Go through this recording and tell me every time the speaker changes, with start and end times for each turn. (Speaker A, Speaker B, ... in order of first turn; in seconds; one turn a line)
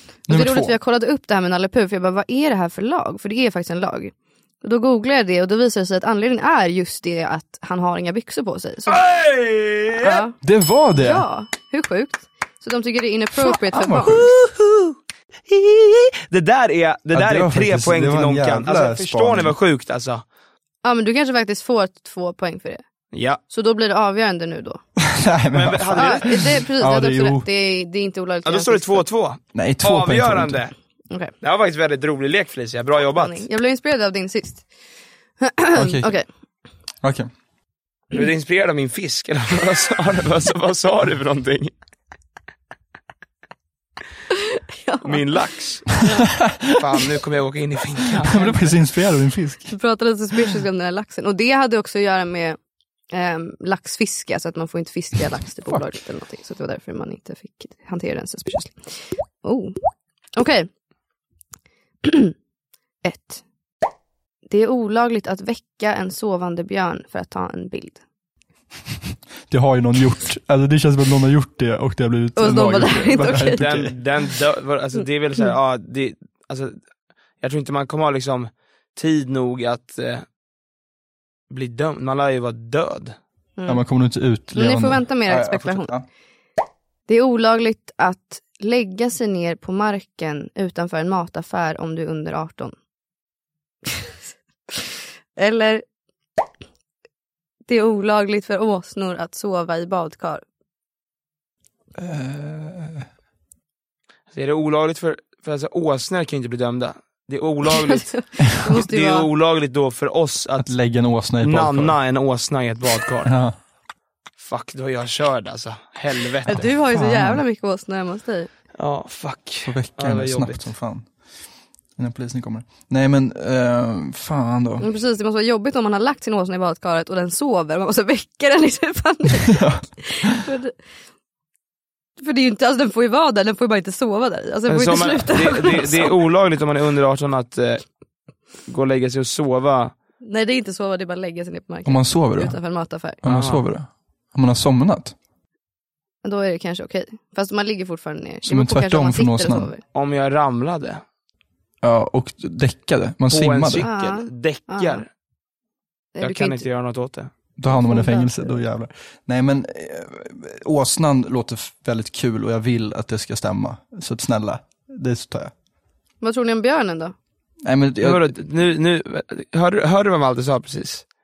Speaker A: 0.3-0.7
Speaker B: 0.3-9.0
Speaker C: 8.9-10.2
Speaker B: 10.0-10.3
Speaker A: 10.4-11.2
Speaker B: 11.0-14.2
Speaker A: 13.5-14.3
Speaker C: 14.1-14.9
Speaker C: 15.5-20.2
Speaker A: 17.1-19.6
Speaker B: 20.8-22.8
Speaker C: 23.1-23.4
Speaker B: 23.5-24.8
Speaker A: 25.0-27.5
Speaker C: 25.5-26.4
Speaker B: 26.0-29.0
Speaker C: 28.4-30.7
Speaker A: 29.5-30.6
Speaker C: 31.4-33.4
Speaker B: 33.1-34.6
Speaker B: 35.4-36.2
Speaker A: 35.7-36.2
Speaker A: 37.0-37.3
Speaker C: 38.1-41.7
Speaker B: 44.6-46.3
Speaker C: 45.0-45.9
Speaker A: 46.4-46.8
Speaker C: 46.7-48.8
Speaker A: 48.2-49.8
Speaker B: 49.7-52.6
Speaker B: 53.1-59.8
Speaker B: 60.4-60.7
Speaker B: 62.0-62.3
Speaker B: 63.0-63.4
Speaker B: 64.5-68.0
Speaker A: 69.5-73.9
Speaker B: 72.3-73.7
Speaker C: 73.6-76.8
Speaker C: 77.4-80.2
Speaker C: 81.5-83.2
Speaker B: 83.6-83.8
Speaker A: 83.7-86.0
Speaker B: 84.5-85.9
Speaker B: 87.1-92.7
Speaker B: 94.7-95.8
Speaker B: 97.7-100.4
Speaker A: 102.0-103.1
Speaker C: 104.3-110.7
Speaker B: 107.8-109.3
Speaker A: 110.6-112.0
Speaker C: 111.4-113.3
Speaker A: 113.2-113.5
Speaker C: 114.4-116.7
Speaker B: 116.5-118.5
Speaker A: 116.6-117.4
Speaker C: 118.8-120.6
Speaker A: 119.6-121.1
Speaker A: 122.0-124.9
Speaker B: 124.8-130.8
Speaker A: 129.4-130.4
Speaker B: 132.2-136.2
Speaker C: 134.7-137.8
Speaker C: 138.7-139.9
Speaker B: 140.2-143.2
Speaker A: 141.8-142.6
Speaker A: 143.2-145.1
Speaker C: 143.2-143.6
Speaker B: 146.2-149.8
Speaker A: 148.4-149.7
Speaker C: 149.9-151.0
Speaker A: 151.8-153.9
Speaker C: 153.3-155.1
Speaker B: 153.8-155.1
Speaker B: 156.1-156.7
Speaker C: 156.2-157.3
Speaker A: 157.6-165.5
Speaker B: 157.6-158.6
Speaker B: 166.2-167.1
Speaker A: 167.7-168.4
Speaker C: 168.0-171.1